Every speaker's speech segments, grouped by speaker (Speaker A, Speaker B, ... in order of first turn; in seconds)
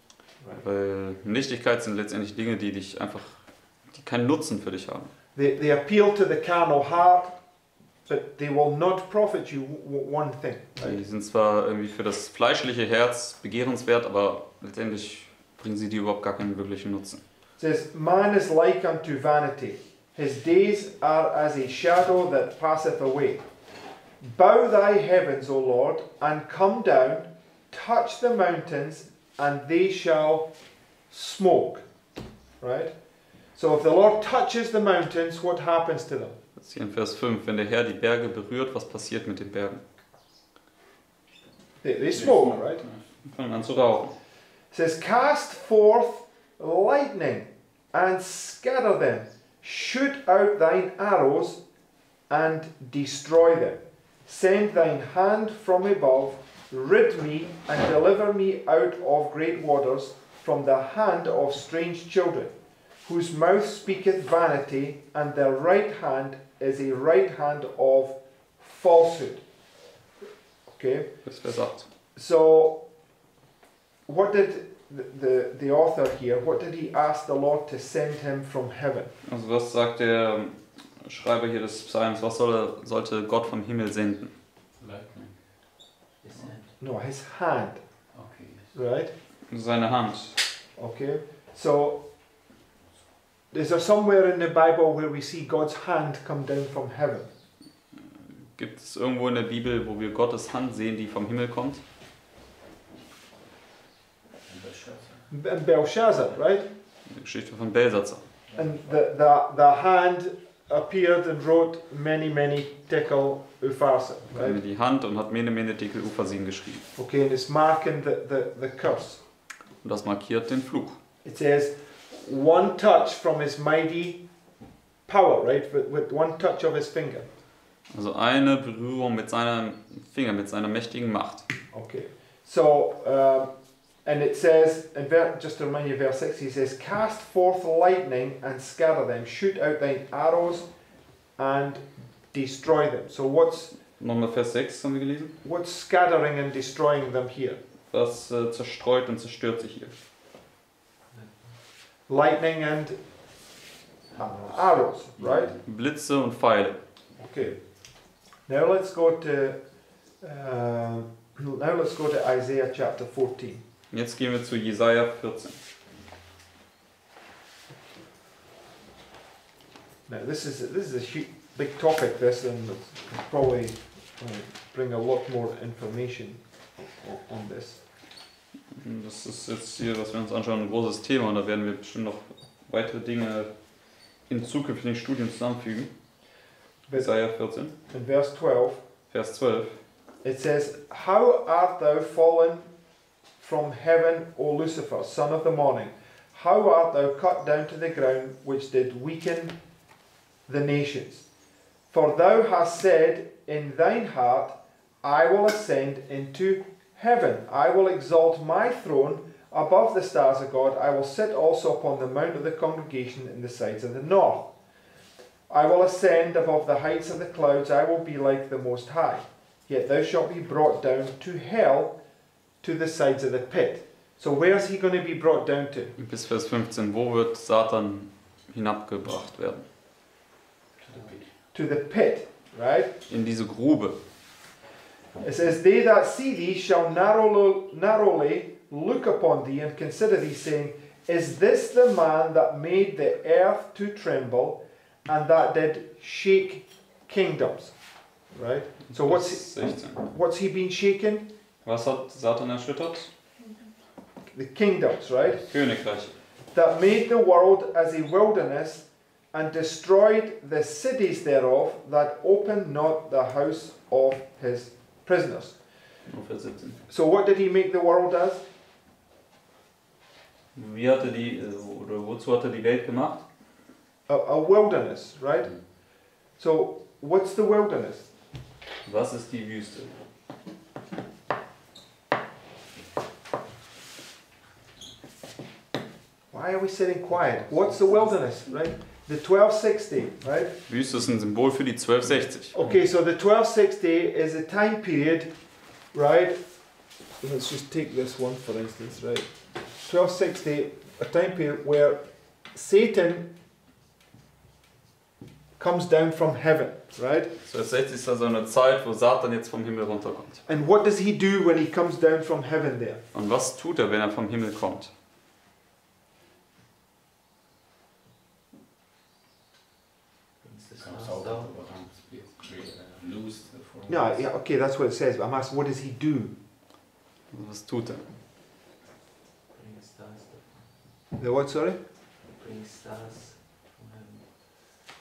Speaker A: 0.6-5.1, 10.8-17.2, 36.6-39.8, 43.2-44.1, 71.2-71.9, 79.2-84.3, 89.5-90.4, 98.4-101.8, 107.1-108.2, 114.3-116.8, 119.8-121.0, 127.9-131.5, 144.0-145.3, 147.9-149.9, 155.6-156.8, 163.9-165.6, 178.7-183.5, 184.2-185.9, 186.9-187.8, 189.1-189.8, 226.0-229.6, 233.1-234.0, 248.9-250.0, 251.6-253.1, 255.5-256.1, 266.1-266.8, 270.6-273.2, 278.9-280.0, 290.7-292.5, 307.5-310.4, 313.1-314.9, 327.3-328.1
Speaker B: 5.3-7.4, 8.1-11.0, 17.6-23.4, 24.2-30.5, 31.1-31.9, 32.6-36.4, 41.8-42.8, 44.7-51.6, 52.3-69.4, 70.7-71.1, 72.2-72.8, 74.1-79.1, 86.8-87.8, 88.7-89.1, 90.8-92.1, 93.5-97.3, 105.3-106.7, 108.5-114.6, 117.0-119.2, 121.2-124.2, 125.1-127.3, 131.7-140.7, 141.4-143.7, 145.4-147.6, 152.1-153.0, 154.2-155.5, 157.2-157.8, 158.5-159.6, 160.2-163.6, 170.1-177.8, 187.9-188.8, 190.2-192.7, 193.4-199.6, 200.5-201.2, 201.9-214.5, 215.5-222.0, 222.6-225.9, 231.5-232.9, 235.2-247.8, 248.3-251.3, 254.3-255.4, 256.5-265.6, 266.9-268.4, 274.1-278.1, 286.3-290.6, 292.5-295.3, 295.9-296.4, 297.2-303.3, 305.6-307.3, 310.5-313.0, 323.9-326.4, 331.2-331.8
Speaker C: 42.1-43.1, 84.8-85.3, 88.1-88.8, 104.5-105.3, 108.5-108.8, 155.2-155.6, 230.8-231.3, 320.8-324.3
Speaker D: 86.2-86.7, 151.1-151.5, 320.4-321.5, 329.5-330.7, 332.3-334.3